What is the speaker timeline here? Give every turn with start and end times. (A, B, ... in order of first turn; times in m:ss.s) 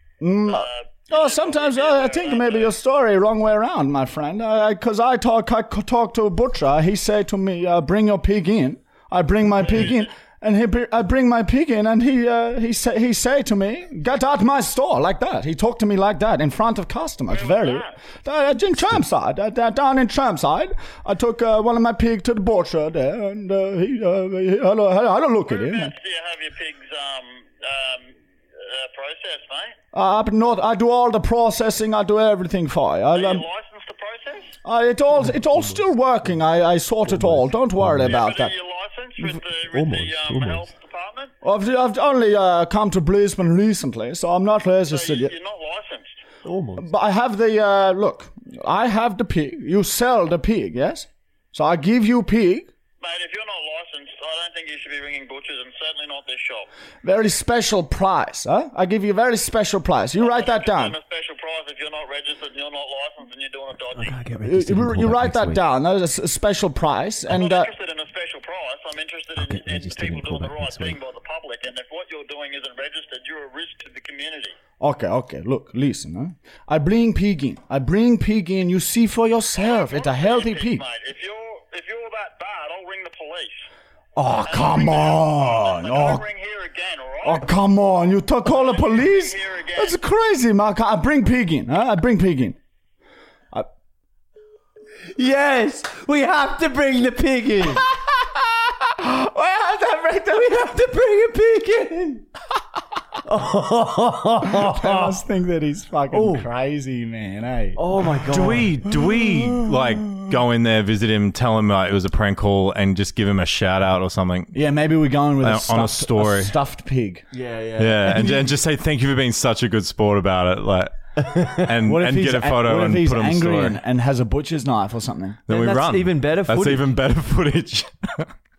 0:00.2-0:25.9 A
0:00.5-0:02.7 B
0:17.3-0:18.0 B
0:25.5-0:29.8 B
0:29.9-0:33.4 A
0:33.1-0:34.6 B
0:34.6-0:38.5 A
0:38.0-0:41.3 B
0:39.7-0:40.6 C
0:41.4-0:45.3 A
0:44.9-0:46.1 B
0:46.4-0:46.9 C
0:46.8-0:52.7 A
0:53.0-0:56.7 B
0:57.0-1:01.0 A
1:00.2-1:04.2 B
1:04.0-1:05.6 C
1:04.4-1:07.7 A
1:07.3-1:14.6 B
1:09.4-1:11.0 C
1:14.8-1:20.8 A
1:19.6-1:23.6 B
1:24.2-1:26.2 A
1:24.5-1:27.5 B
1:27.2-1:32.6 A
1:28.5-1:29.9 B
1:35.0-1:37.9 C
1:37.9-1:40.5 A
1:40.3-1:42.2 C
1:43.2-1:45.2 C
1:44.6-1:47.8 A
1:46.1-1:46.5 C
1:47.8-1:48.7 C
1:48.3-1:54.5 D
1:48.4-1:50.3 A
1:54.5-1:57.2 A
1:55.4-1:56.5 D
1:57.3-1:58.3 C
1:57.8-2:03.8 D
1:58.1-1:58.4 A
2:01.2-2:01.7 C
2:01.8-2:05.4 A
2:05.5-2:08.3 D
2:05.5-2:06.9 C